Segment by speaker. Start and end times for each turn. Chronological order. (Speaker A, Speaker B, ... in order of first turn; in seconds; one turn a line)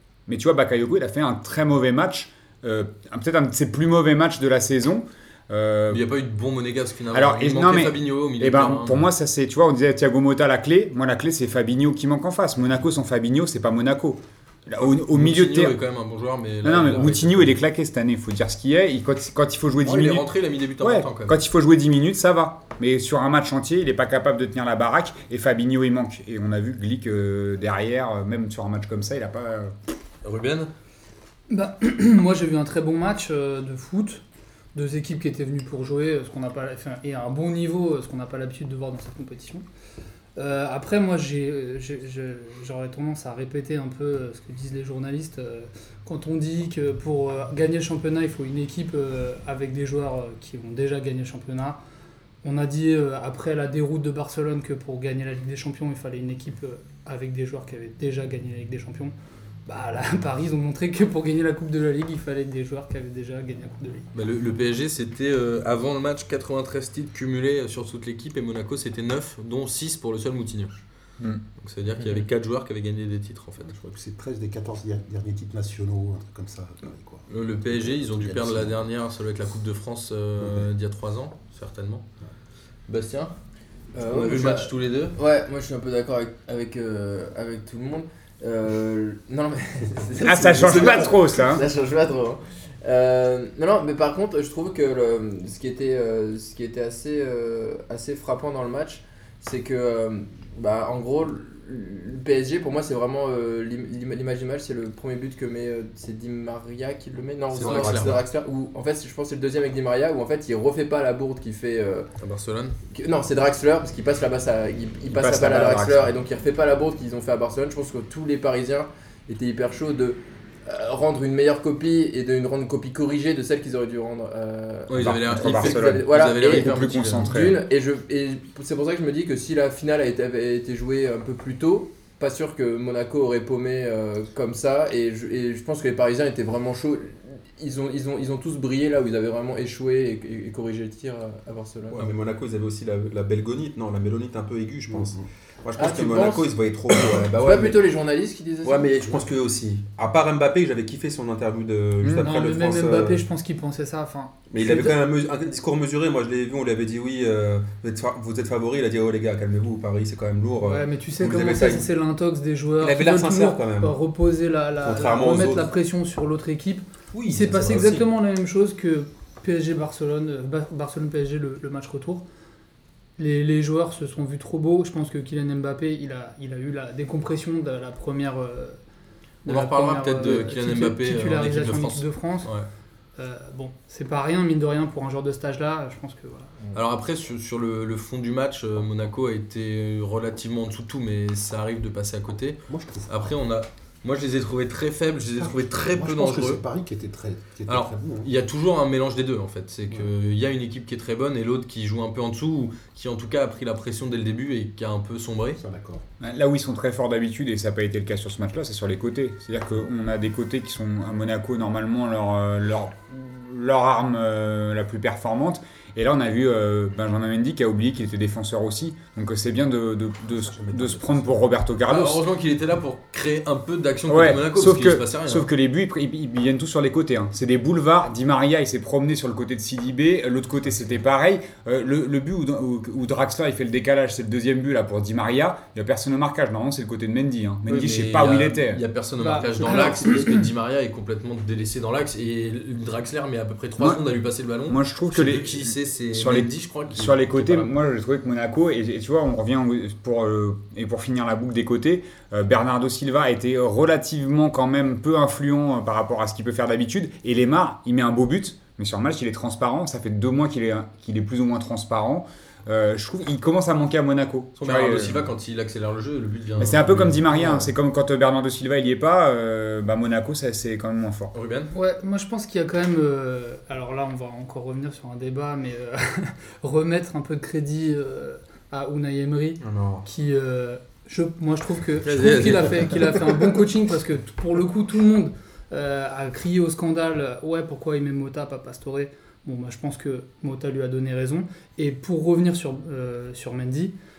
Speaker A: 0.3-6.0
Speaker B: 5.9-9.1
Speaker A: 7.1-15.8
Speaker B: 15.0-17.6
Speaker A: 16.6-20.3
Speaker B: 19.8-21.4
Speaker A: 20.8-29.7
Speaker B: 30.2-30.7
Speaker C: 31.5-34.2
Speaker C: 34.8-39.6
Speaker C: 40.4-51.8
Speaker C: 52.4-59.1
Speaker C: 59.7-64.1
Speaker B: 64.1-70.8
Speaker B: 71.6-73.7
Speaker D: 73.7-78.8
Speaker B: 77.3-82.1
Speaker B: 82.9-83.3
Speaker E: 83.9-112.1
Speaker B: 84.0-85.2
Speaker A: 90.2-91.6
Speaker B: 107.5-108.2
Speaker F: 107.6-108.2
Speaker B: 112.2-112.8
Speaker E: 112.9-142.1
Speaker A: 115.1-116.1
Speaker B: 124.9-127.4
Speaker A: 125.0-127.6
Speaker F: 141.9-147.8
Speaker D: 144.9-145.2
Speaker E: 145.8-148.9
Speaker F: 148.6-153.2
Speaker C: 152.2-155.0
Speaker F: 154.5-161.9
Speaker C: 160.6-172.2
Speaker F: 162.8-164.0
Speaker F: 164.8-165.7
Speaker F: 167.1-168.1
Speaker C: 173.2-178.8
Speaker C: 179.4-182.5
Speaker B: 179.5-182.7
Speaker C: 183.2-186.5
Speaker B: 186.7-196.6
Speaker D: 192.7-193.4
Speaker D: 195.4-198.3
Speaker B: 197.7-205.6
Speaker D: 205.6-206.0
Speaker A: 206.2-222.2
Speaker F: 220.4-221.4
Speaker B: 221.9-225.5
Speaker A: 224.1-238.8
Speaker B: 237.7-247.7
Speaker C: 239.2-240.5
Speaker A: 243.8-244.0
Speaker A: 244.7-265.3
Speaker B: 264.6-267.7
Speaker A: 266.6-271.3
Speaker B: 271.3-271.7
Speaker C: 271.7-293.9
Speaker F: 279.6-280.1
Speaker B: 282.0-283.2